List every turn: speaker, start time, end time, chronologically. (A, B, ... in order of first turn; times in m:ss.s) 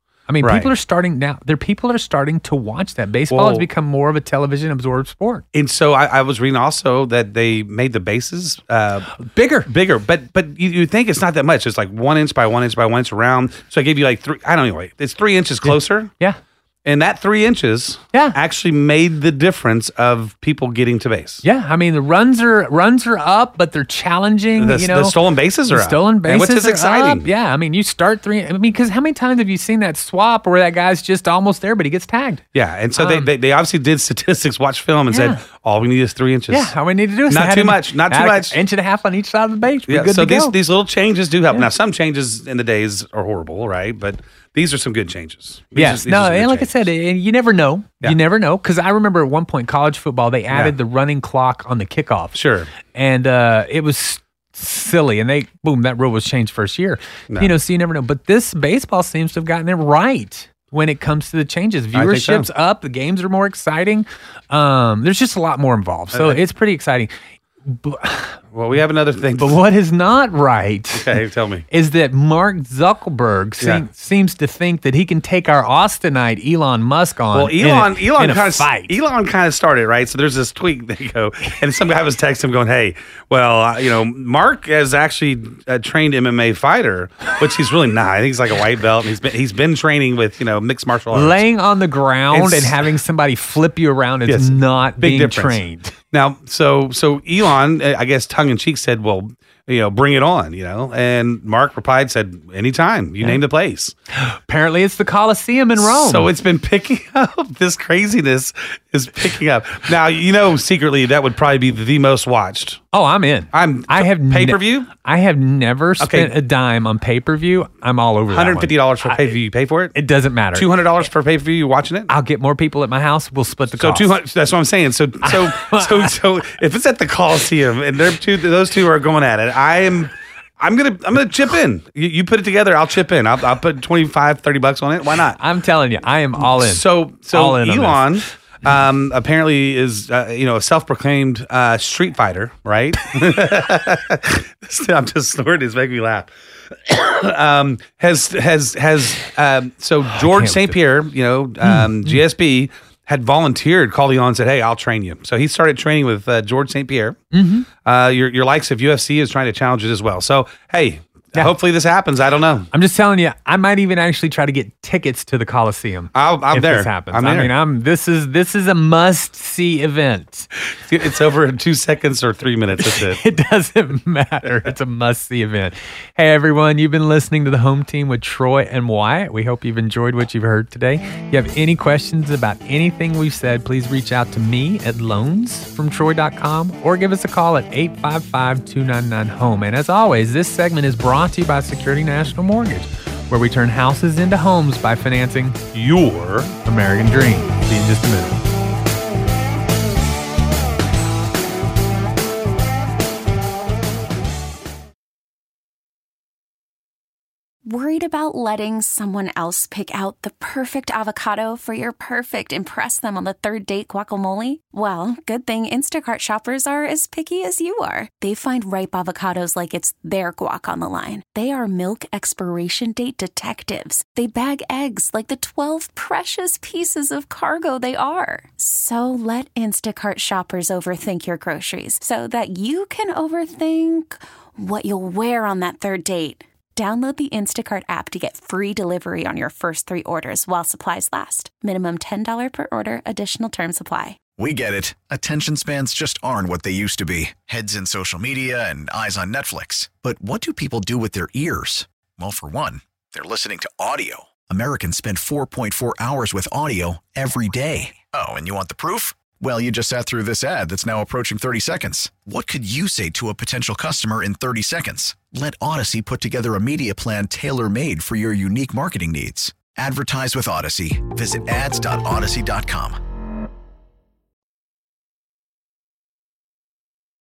0:00.3-0:05.4 A
0:00.4-0:00.7 B
0:03.3-0:03.6 B
0:05.5-0:09.2 B
0:09.1-0:09.7 A
0:09.7-0:16.1 B
0:15.6-0:16.4 A
0:16.8-0:21.4 B
0:21.4-0:25.2 A
0:24.6-0:27.3 B
0:25.7-0:32.4 A
0:32.5-0:36.7 B
0:33.0-0:33.3 A
0:35.1-0:35.4 A
0:36.5-0:40.5 A
0:37.3-0:38.6 B
0:39.9-0:46.8 B
0:45.7-0:52.4 A
0:50.5-0:50.8 B
0:52.3-0:52.7 B
0:52.9-1:07.1 A
1:01.9-1:02.5 B
1:06.1-1:06.4 B
1:07.6-1:08.4 A
1:08.5-1:09.6 B
1:09.4-1:18.9 A
1:11.0-1:11.6 B
1:17.3-1:31.4 B
1:31.1-1:35.9 A
1:32.3-1:32.8 B
1:34.2-1:43.9 B
1:44.1-1:46.3 A
1:45.8-1:52.8 B
1:52.9-1:59.3 A
1:53.5-1:54.9 B
1:56.0-1:56.3 B
1:58.3-2:00.0 B
1:59.9-2:00.7 A
2:00.5-2:02.1 B
2:02.1-2:04.1 A
2:03.8-2:15.4 B
2:05.2-2:06.2 A
2:15.4-2:18.1 A
2:16.4-2:37.2 B
2:30.1-2:30.8 A
2:31.6-2:32.2 A
2:37.3-2:37.7 A
2:37.8-2:42.7 B
2:42.7-2:50.5 A
2:46.1-2:47.5 B
2:50.8-2:53.2 B
2:52.8-3:15.6 A
3:15.7-3:16.5 B
3:16.6-3:18.4 A
3:27.6-4:04.2 C
4:04.4-4:33.0 D